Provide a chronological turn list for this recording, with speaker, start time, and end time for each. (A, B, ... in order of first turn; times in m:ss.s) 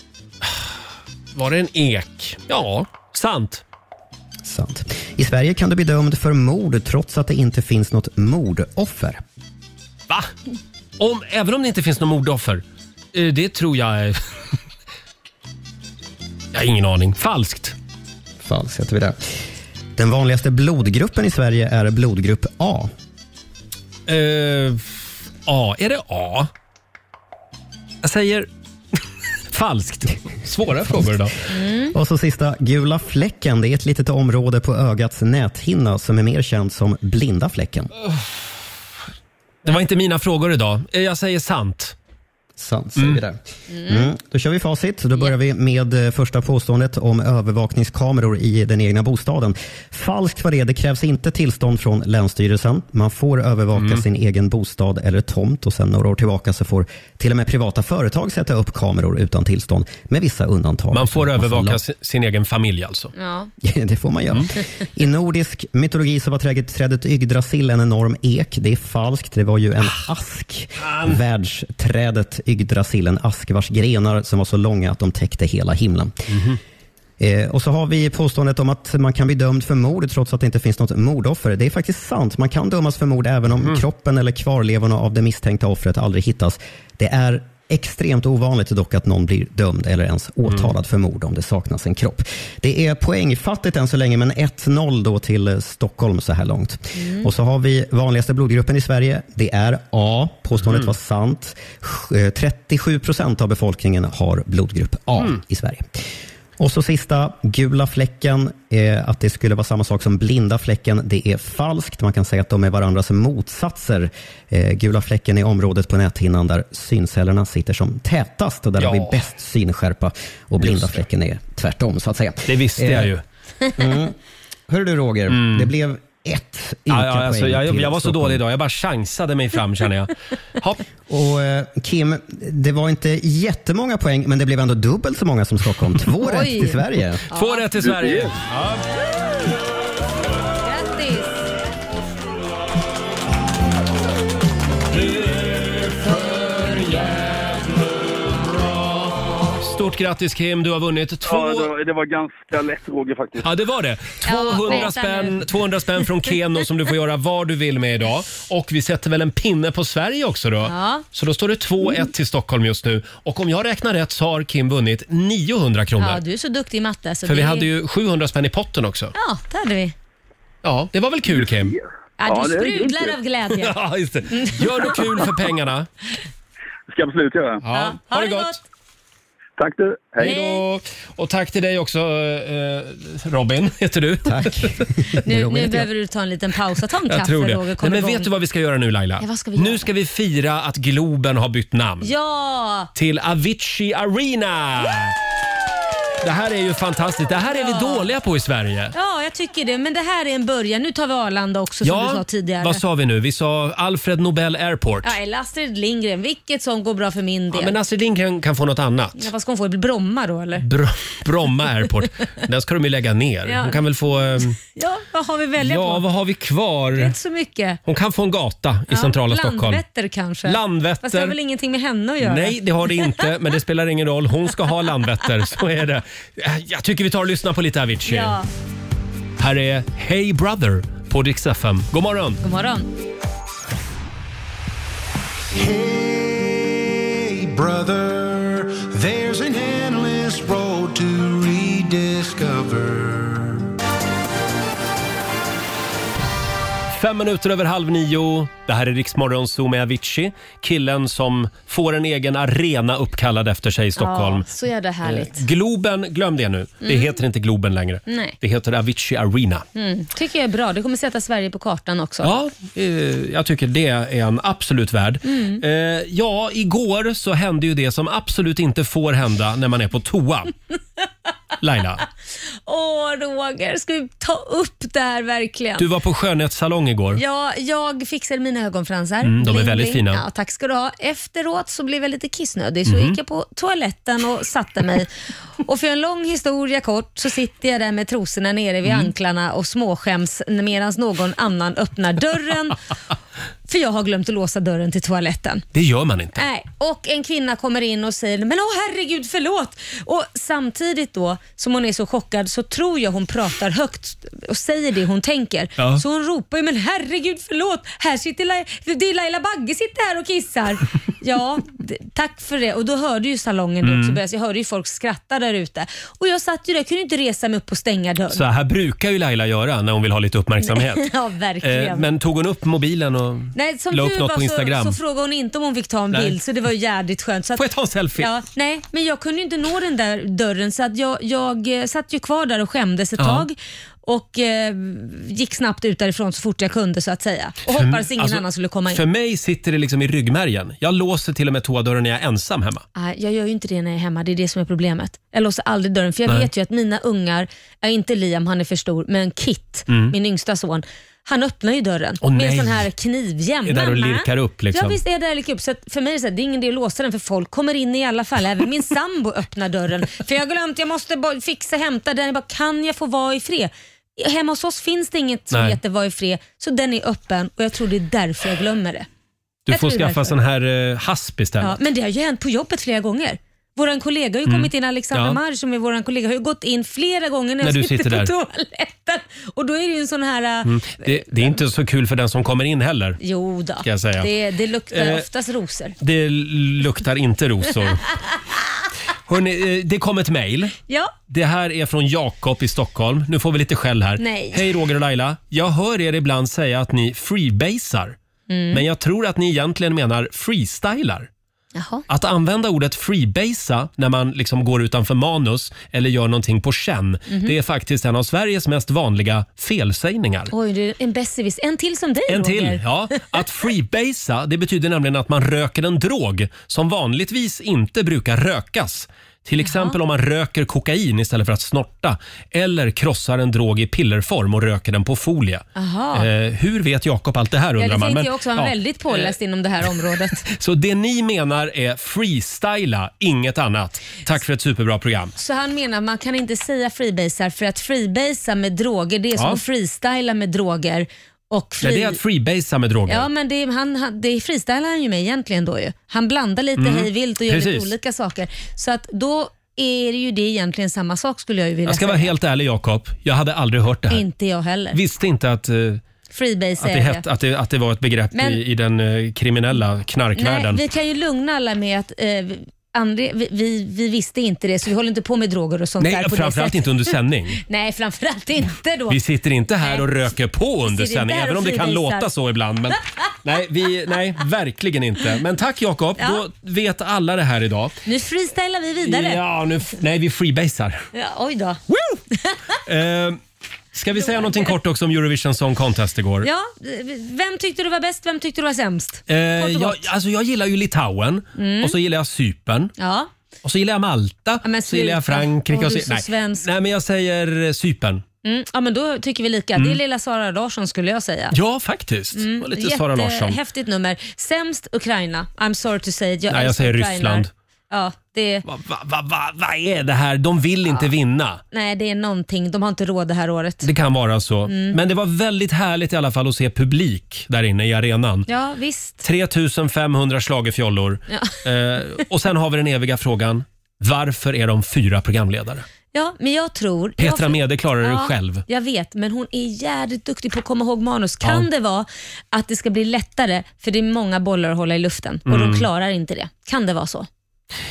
0:00.4-0:00.7 A
0:01.3-0:03.6 A
0:04.4-0:09.2 B
0:11.0-0:14.5 A
0:16.5-0:17.8 A
0:18.4-0:19.2 B
0:20.0-0:22.9 B
0:24.1-0:26.5 A
0:28.0-0:31.4 A
0:30.8-0:31.2 B
0:31.5-0:31.9 C
0:31.8-0:37.9 B
0:38.0-0:38.3 A
0:39.6-0:42.0 A
0:42.6-1:01.8 B
0:43.7-0:44.1 C
0:53.7-0:54.0 A
1:00.9-1:03.1 A
1:03.2-1:03.5 C
1:03.6-1:16.1 B
1:10.8-1:11.2 A
1:16.3-1:16.6 A
1:17.2-1:45.9 B
1:36.9-1:37.3 C
1:40.6-1:40.9 A
1:46.6-2:03.1 B
1:58.8-1:59.2 A
2:00.6-2:01.0 A
2:02.5-2:03.2 A
2:03.8-2:04.2 B
2:04.7-2:08.4 B
2:05.3-2:05.7 A
2:06.9-2:10.8 A
2:11.1-2:17.2 B
2:16.2-2:17.7 C
2:17.3-2:18.8 A
2:17.8-2:18.3 D
2:20.6-2:21.5 C
2:24.9-2:31.7 A
2:31.2-2:33.4 D
2:33.4-2:46.2 A
2:34.2-2:35.4 C
2:40.6-2:41.0 C
2:46.0-2:47.7 C
2:47.2-2:49.1 A
2:49.1-2:49.9 C
2:50.6-2:51.8 A
2:51.4-2:53.2 D
2:52.2-2:53.8 C
2:53.5-2:55.9 A
2:54.3-2:55.2 C
2:56.9-2:57.6 D
2:57.6-2:58.6 A
2:57.7-2:58.6 C
2:59.6-3:00.3 D
3:00.2-3:04.9 A
3:00.2-3:00.6 C
3:04.2-3:05.9 B
3:05.2-3:08.3 C
3:07.0-3:12.1 A
3:09.2-3:09.9 C
3:12.0-3:12.9 C
3:12.9-3:15.2 A
3:16.2-3:18.9 A
3:17.4-3:18.1 C
3:18.9-3:22.8 C
3:21.8-3:25.1 A
3:25.0-3:27.8 C
3:27.5-3:29.3 A
3:29.2-3:30.6 C
3:30.6-3:34.6 A
3:33.4-3:33.8 C
3:34.6-3:36.0 C
3:35.6-3:37.1 A
3:36.9-3:37.8 C
3:37.8-3:39.8 A
3:38.9-3:43.2 C
3:40.4-3:41.4 A
3:42.2-3:48.4 A
3:48.0-3:48.5 C
3:49.4-3:52.4 A
3:52.4-3:52.9 C
3:55.5-4:03.6 E
4:06.9-4:14.5 A
4:14.0-4:15.4 C
4:15.0-4:19.7 A
4:16.8-4:17.2 C
4:18.1-4:18.4 C
4:19.7-4:22.3 C
4:22.2-4:30.5 A
4:25.2-4:25.6 C
4:31.6-4:32.0 A
4:32.6-4:35.9 C
4:35.8-4:37.2 A
4:37.1-4:45.1 C
4:39.2-4:40.2 A
4:42.8-4:43.2 A
4:45.6-4:52.8 C
4:48.8-4:49.1 A
4:53.7-4:55.6 C
4:55.7-4:56.4 A
4:56.3-5:18.4 C
5:05.8-5:06.0 A
5:13.8-5:14.2 A
5:18.3-5:21.0 A
5:20.6-5:22.1 C
5:21.6-5:25.0 A
5:23.5-5:27.6 C
5:26.1-5:26.4 A
5:27.5-5:28.3 A
5:28.2-5:39.0 C
5:33.2-5:33.5 A
5:37.7-5:42.8 A
5:42.9-6:09.1 C
5:49.9-5:50.1 A
5:52.2-5:52.9 A
5:53.6-5:55.0 A
6:05.5-6:05.8 A
6:09.6-6:11.8 A
6:09.7-6:10.3 C
6:11.6-6:21.6 C
6:14.4-6:15.4 A
6:17.6-6:18.3 A
6:20.6-6:23.2 A
6:23.2-6:26.0 C
6:23.8-6:24.3 A
6:24.9-6:25.2 A
6:26.0-6:28.1 A
6:29.3-6:30.8 A
6:30.9-6:31.1 C
6:31.3-6:38.2 A
6:34.2-6:34.6 C
6:38.5-6:38.8 C
6:38.7-6:41.3 A
6:41.7-6:42.0 C
6:42.1-6:50.5 A
6:47.3-6:47.5 C
6:50.5-6:53.2 C
6:52.3-7:09.3 A
6:59.6-7:00.0 C
7:05.7-7:06.3 C
7:07.8-7:10.5 C
7:10.0-7:15.3 A
7:15.4-7:22.2 C
7:19.4-7:19.6 A
7:21.8-7:23.3 A
7:23.1-7:32.3 C
7:26.8-7:27.9 A
7:31.8-7:34.2 A
7:34.1-7:35.0 C
7:34.9-7:36.0 A
7:36.3-7:37.2 C
7:36.8-7:40.8 A
7:38.3-7:38.6 C
7:40.3-7:49.2 C
7:46.0-7:47.6 A
7:49.1-7:57.9 A
7:49.8-7:50.0 C
7:50.8-7:52.3 C
7:56.2-7:56.4 C
7:58.0-7:59.4 C
7:59.0-8:01.1 A
8:01.1-8:02.6 C
8:01.9-8:02.2 A
8:02.8-8:03.4 A
8:03.9-8:06.5 A
8:04.1-8:04.7 C
8:06.4-8:10.1 C
8:09.3-8:12.9 A
8:11.6-8:11.9 C
8:13.0-8:13.3 C
8:13.6-8:18.2 A
8:14.6-8:16.6 C
8:18.4-8:21.6 C
8:21.5-8:23.6 A
8:22.3-8:28.6 C
8:26.5-8:27.5 A
8:28.6-8:31.6 A
8:31.7-8:33.9 C
8:33.8-8:38.5 A
8:34.7-8:35.0 C
8:38.5-8:39.2 C
8:39.2-8:45.8 A
8:41.3-8:41.6 C
8:46.1-8:57.3 C
8:47.2-8:48.6 A
8:51.4-8:51.7 A
8:55.5-8:55.9 A